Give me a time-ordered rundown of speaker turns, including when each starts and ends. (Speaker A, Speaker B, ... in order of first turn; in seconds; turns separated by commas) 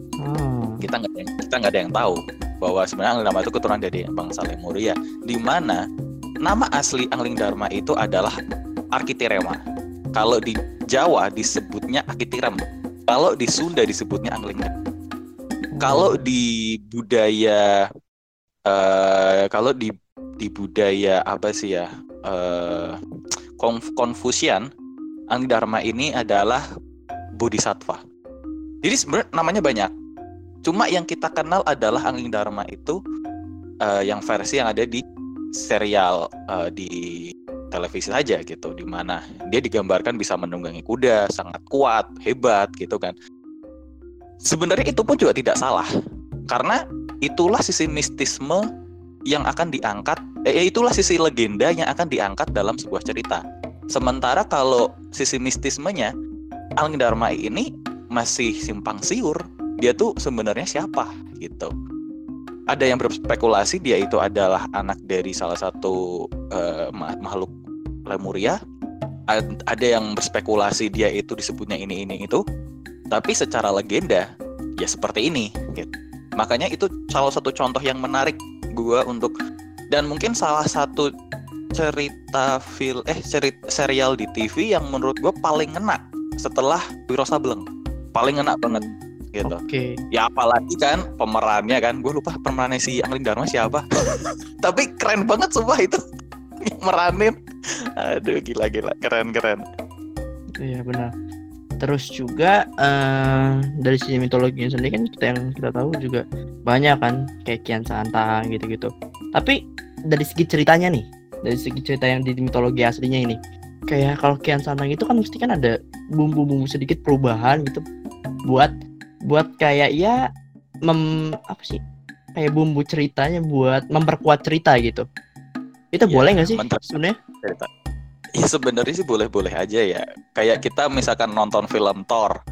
Speaker A: 0.2-0.8, Speaker B: 0.8-5.8, Speaker B: 6.5-8.3, Speaker B: 8.9-9.6, Speaker B: 10.2-12.6, Speaker B: 13.1-14.7, Speaker A: 15.7-16.2, Speaker B: 15.8-17.6, Speaker B: 18.7-23.0, Speaker B: 23.6-24.7, Speaker B: 25.3-26.6, Speaker B: 27.4-28.0, Speaker B: 28.8-29.9, Speaker B: 30.6-33.0, Speaker B: 33.8-35.0, Speaker B: 35.6-37.0, Speaker B: 37.7-43.1, Speaker B: 44.5-45.9, Speaker B: 46.5-48.6, Speaker B: 49.3-53.4, Speaker B: 53.9-56.1, Speaker B: 56.8-61.7, Speaker B: 62.7-66.0, Speaker B: 66.5-67.5, Speaker B: 68.1-68.6, Speaker B: 69.3-72.4, Speaker B: 73.1-74.2, Speaker B: 74.8-79.3, Speaker B: 79.9-81.1, Speaker B: 81.8-88.8, Speaker B: 89.3-89.6, Speaker A: 89.4-89.9, Speaker B: 90.1-93.8, Speaker B: 94.6-96.0, Speaker B: 96.8-97.3, Speaker B: 98.0-99.6, Speaker A: 100.6-101.1, Speaker A: 101.8-109.6, Speaker A: 110.1-113.4, Speaker A: 113.9-117.8, Speaker A: 118.5-118.7, Speaker A: 119.3-120.2, Speaker A: 120.9-121.8, Speaker A: 122.4-125.0, Speaker A: 125.9-127.2, Speaker B: 126.1-126.8, Speaker B: 127.4-127.7, Speaker B: 128.4-132.3